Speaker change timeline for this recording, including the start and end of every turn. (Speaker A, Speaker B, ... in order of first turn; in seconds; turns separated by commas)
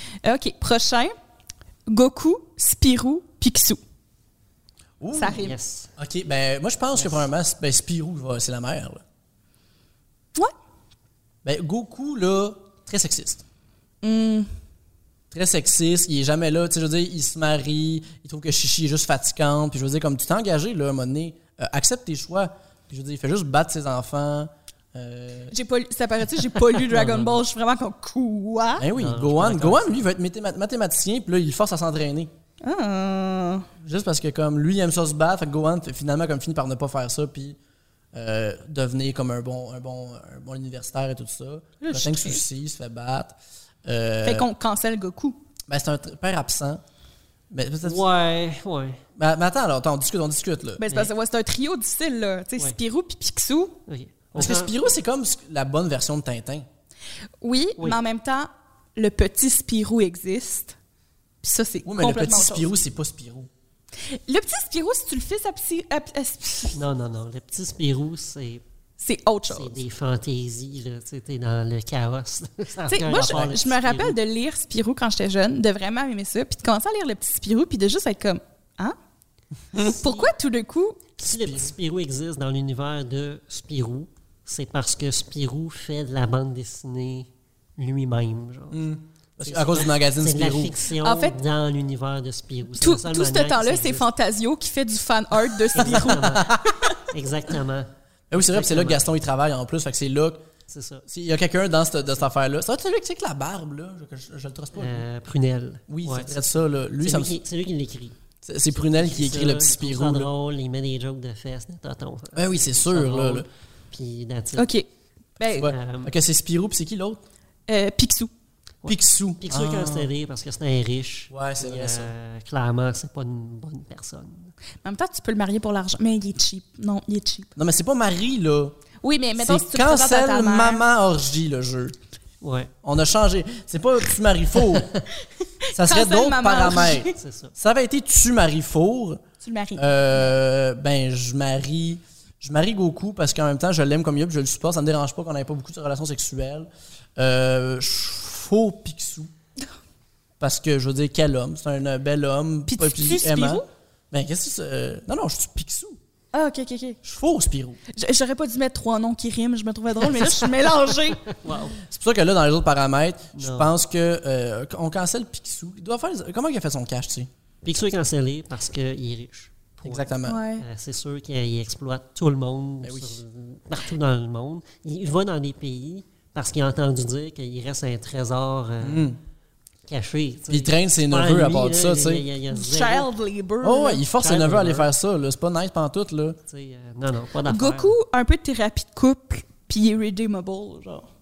Speaker A: 0.2-1.1, Speaker A: 1.9-3.8, Speaker B: 5.0-9.0, Speaker A: 5.1-5.6, Speaker C: 5.3-5.9, Speaker B: 11.4-13.4, Speaker A: 14.0-14.5, Speaker B: 15.3-25.5, Speaker A: 25.5-28.9, Speaker C: 26.8-27.4, Speaker B: 28.8-32.3, Speaker C: 28.9-30.1, Speaker A: 32.6-33.7, Speaker B: 33.8-37.6, Speaker B: 38.1-44.5, Speaker A: 41.8-42.4, Speaker A: 44.2-45.4, Speaker B: 45.7-46.8, Speaker B: 47.5-48.0, Speaker C: 47.8-49.0, Speaker B: 49.2-50.8, Speaker A: 50.8-53.8, Speaker C: 53.9-54.7, Speaker B: 54.4-56.7, Speaker A: 57.4-60.8, Speaker A: 61.4-62.7, Speaker B: 61.9-63.5, Speaker A: 64.1-66.8, Speaker C: 66.7-68.6, Speaker A: 69.0-69.8, Speaker C: 69.5-74.2, Speaker A: 72.9-79.0, Speaker B: 73.1-73.6, Speaker C: 79.8-80.3, Speaker A: 79.9-81.0, Speaker C: 81.2-88.8, Speaker B: 81.3-81.7, Speaker B: 88.7-90.8, Speaker C: 89.4-94.1, Speaker A: 91.0-91.4, Speaker A: 92.8-97.0, Speaker C: 95.7-99.0, Speaker B: 95.9-96.7, Speaker B: 98.3-100.5, Speaker C: 100.7-101.0, Speaker B: 101.1-105.0, Speaker C: 104.8-106.4, Speaker B: 105.9-107.4, Speaker C: 107.0-108.2, Speaker B: 108.4-110.3, Speaker C: 108.7-114.7, Speaker B: 112.3-113.5, Speaker A: 114.6-114.9, Speaker A: 115.4-115.7, Speaker B: 115.6-117.2, Speaker C: 115.6-116.1, Speaker A: 117.7-118.3, Speaker C: 118.8-124.5, Speaker B: 118.8-120.1, Speaker B: 121.3-122.1, Speaker A: 124.8-127.5, Speaker B: 127.6-128.8, Speaker A: 129.0-130.8, Speaker B: 129.4-132.0, Speaker C: 132.4-132.7, Speaker B: 132.8-135.0, Speaker A: 135.6-137.2, Speaker B: 135.7-139.2, Speaker C: 137.2-137.5, Speaker A: 139.4-140.2, Speaker B: 139.8-149.3, Speaker B: 150.4-156.0, Speaker A: 152.7-153.7, Speaker A: 156.3-157.0, Speaker B: 157.0-157.8, Speaker A: 157.9-161.2, Speaker C: 161.3-161.8, Speaker B: 161.8-167.3, Speaker C: 163.4-163.7, Speaker C: 167.6-170.1, Speaker B: 169.8-170.4, Speaker A: 170.2-170.7, Speaker C: 170.6-179.1, Speaker B: 172.8-173.2, Speaker B: 178.8-179.2, Speaker C: 179.9-183.1, Speaker B: 180.5-182.3, Speaker A: 182.5-184.0, Speaker B: 183.6-186.4, Speaker C: 184.2-184.9, Speaker C: 186.5-187.9, Speaker A: 187.5-191.1